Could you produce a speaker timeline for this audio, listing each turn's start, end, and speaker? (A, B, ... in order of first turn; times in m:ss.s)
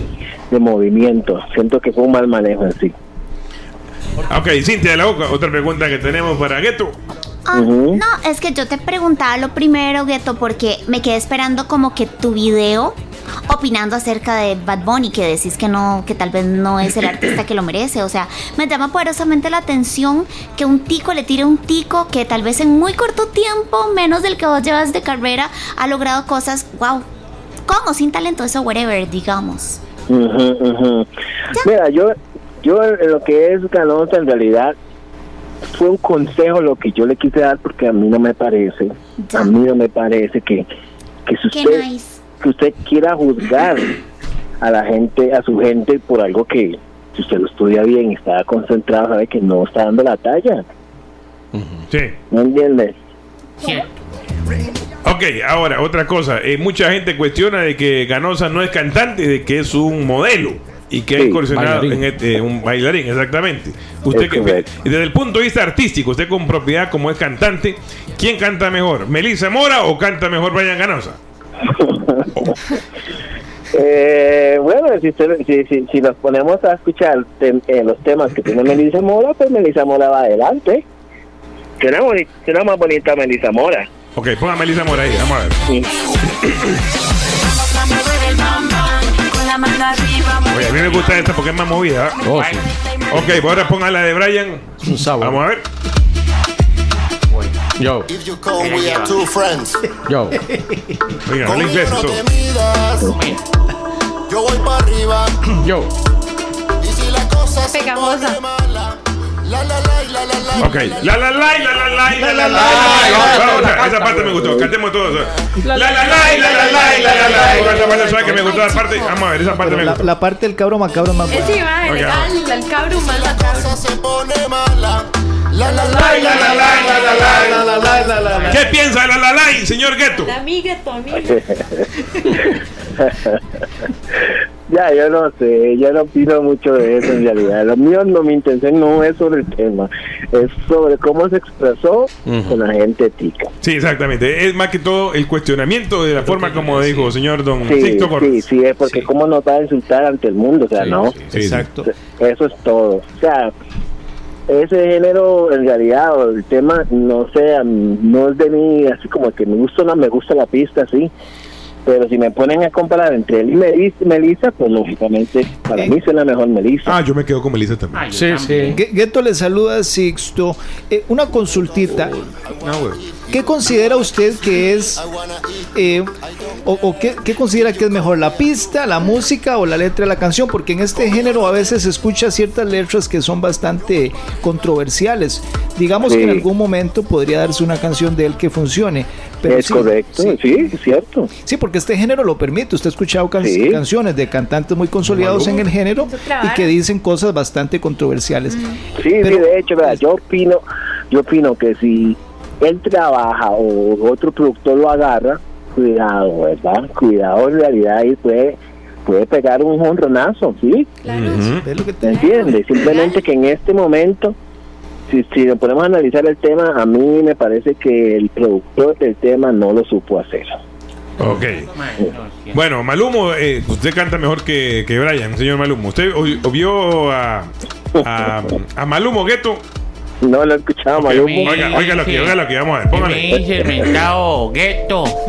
0:00.5-0:02.9 A
0:04.3-0:07.0 B
0:07.5-0:13.0 C
0:07.5-0:08.0 A
0:13.5-0:27.0 C
0:27.7-0:29.8 C
0:30.1-0:31.1 A
0:31.6-0:34.8 A
0:35.7-0:40.6 A
0:39.2-0:39.5 C
0:41.3-0:41.9 A
0:41.5-0:42.2 C
0:42.4-0:43.9 A
0:44.6-0:50.6 A
0:51.5-0:51.8 D
0:52.3-0:52.9 A
0:53.6-0:53.9 E
0:55.0-1:11.2 B
1:01.2-1:01.4 A
1:01.5-1:02.0 D
1:04.1-1:04.7 A
1:11.7-1:12.2 A
1:13.7-1:20.8 A
1:21.8-1:23.9 A
1:24.2-1:25.6 B
1:26.4-1:26.8 B
1:30.5-1:32.2 B
1:32.2-1:32.6 D
1:32.3-1:32.6 E
1:33.1-1:35.6 B
1:34.8-1:35.4 D
1:37.8-1:38.1 D
1:38.1-1:39.9 F
1:38.6-1:39.2 E
1:40.0-1:40.4 D
1:41.3-1:42.2 B
1:41.4-1:43.1 F
1:43.1-1:43.4 E
1:44.3-1:45.6 F
1:45.6-1:45.9 D
1:46.8-1:51.2 F
1:47.7-1:48.4 G
1:50.6-2:00.1 B
1:52.1-1:53.2 H
1:52.6-1:54.4 D
1:57.0-1:57.7 F
1:57.7-1:59.2 G
1:59.4-2:01.7 H
2:01.3-2:03.8 G
2:01.8-2:02.3 B
2:02.8-2:08.6 F
2:05.6-2:07.3 G
2:06.2-2:07.6 B
2:06.7-2:08.6 H
2:08.5-2:10.4 B
2:10.2-2:11.4 G
2:11.1-2:13.4 A
2:14.7-2:23.5 A
2:22.2-2:22.6 D
2:23.6-2:28.4 B
2:26.2-2:27.1 D
2:27.6-2:31.2 A
2:30.8-2:31.3 D
2:31.3-2:31.7 B
2:31.3-2:31.9 H
2:32.0-2:33.5 A
2:34.5-2:41.1 A
2:41.9-2:47.0 A
2:46.9-2:48.0 B
2:47.9-2:48.8 E
2:48.1-2:48.8 D
2:48.7-2:52.2 H
2:52.4-2:55.8 F
2:52.6-2:53.0 B
2:53.3-2:55.0 H
2:55.8-2:56.1 H
2:56.6-3:10.6 H
3:06.1-3:06.5 A
3:09.5-3:11.3 A
3:11.4-3:18.7 H
3:13.4-3:13.8 A
3:15.0-3:15.6 D
3:15.6-3:16.8 G
3:19.0-3:31.0 A
3:19.2-3:20.0 H
3:31.0-3:31.6 G
3:31.1-3:31.6 B
3:31.6-3:32.5 H
3:32.0-3:34.4 A
3:32.1-3:33.2 G
3:35.1-3:40.5 A
3:41.2-3:41.7 B
3:41.2-3:42.6 E
3:42.5-3:49.6 B
3:50.2-3:51.8 A
3:51.0-3:53.4 B
3:51.2-3:52.4 E
3:52.9-3:55.2 E